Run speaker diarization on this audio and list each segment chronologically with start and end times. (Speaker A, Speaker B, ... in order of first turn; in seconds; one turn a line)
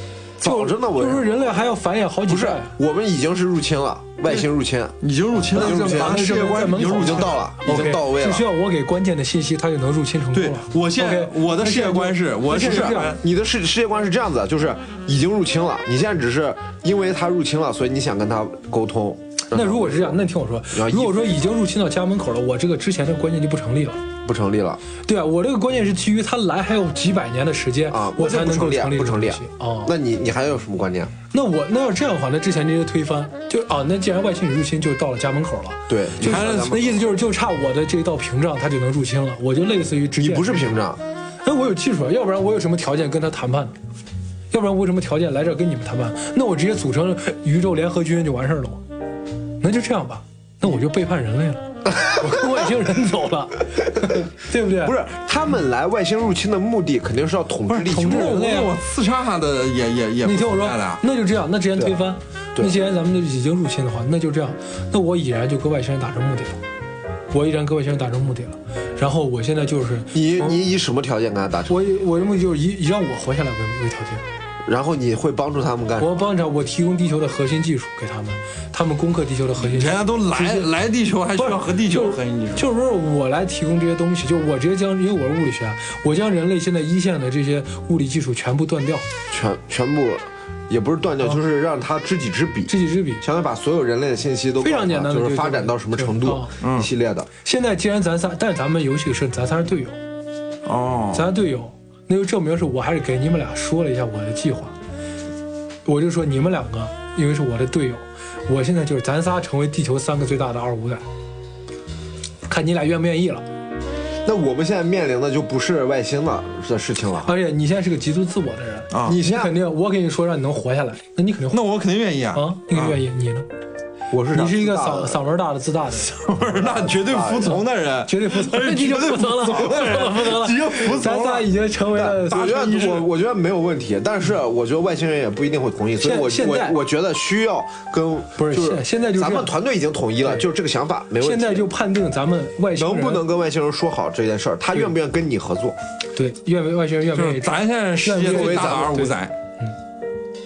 Speaker A: 0.4-1.3
Speaker B: 0.4-2.7
Speaker A: 2.3-8.5
Speaker C: 5.0-7.4
Speaker B: 5.5-13.2
Speaker C: 10.3-13.2
Speaker A: 12.5-20.2
Speaker B: 19.5-24.0
Speaker A: 20.7-21.3
Speaker A: 24.2-24.8
Speaker B: 25.1-29.9
Speaker A: 27.9-31.1
Speaker B: 31.3-40.8
Speaker A: 35.9-37.0
Speaker C: 36.2-36.8
Speaker A: 40.2-41.0
Speaker B: 41.4-43.8
Speaker B: 44.5-48.8
Speaker B: 49.6-55.0
Speaker A: 54.8-58.3
Speaker B: 57.7-58.7
Speaker C: 57.9-61.0
Speaker B: 60.2-66.6
Speaker B: 67.3-70.6
Speaker A: 70.1-71.8
Speaker B: 71.7-74.2
Speaker A: 74.7-76.2
Speaker B: 76.0-80.7
Speaker C: 79.6-82.7
Speaker B: 81.4-89.1
Speaker A: 89.3-97.3
Speaker B: 92.7-93.2
Speaker B: 94.6-96.5
Speaker C: 96.6-96.9
Speaker B: 97.4-100.0
Speaker C: 100.7-101.3
Speaker B: 101.1-104.8
Speaker B: 105.9-111.0
Speaker B: 112.5-113.5
Speaker A: 114.2-117.3
Speaker B: 117.2-121.6
Speaker C: 118.9-119.2
Speaker A: 119.0-119.5
Speaker C: 121.5-123.0
Speaker B: 122.3-123.5
Speaker A: 124.1-125.2
Speaker B: 124.3-126.2
Speaker C: 126.1-131.5
Speaker A: 126.5-127.6
Speaker B: 127.5-132.6
Speaker A: 131.9-141.7
Speaker C: 132.3-133.1
Speaker B: 136.0-136.8
Speaker B: 138.4-139.5
Speaker B: 141.2-143.2
Speaker A: 142.8-145.8
Speaker B: 146.2-149.8
Speaker C: 147.2-149.3
Speaker A: 148.2-149.1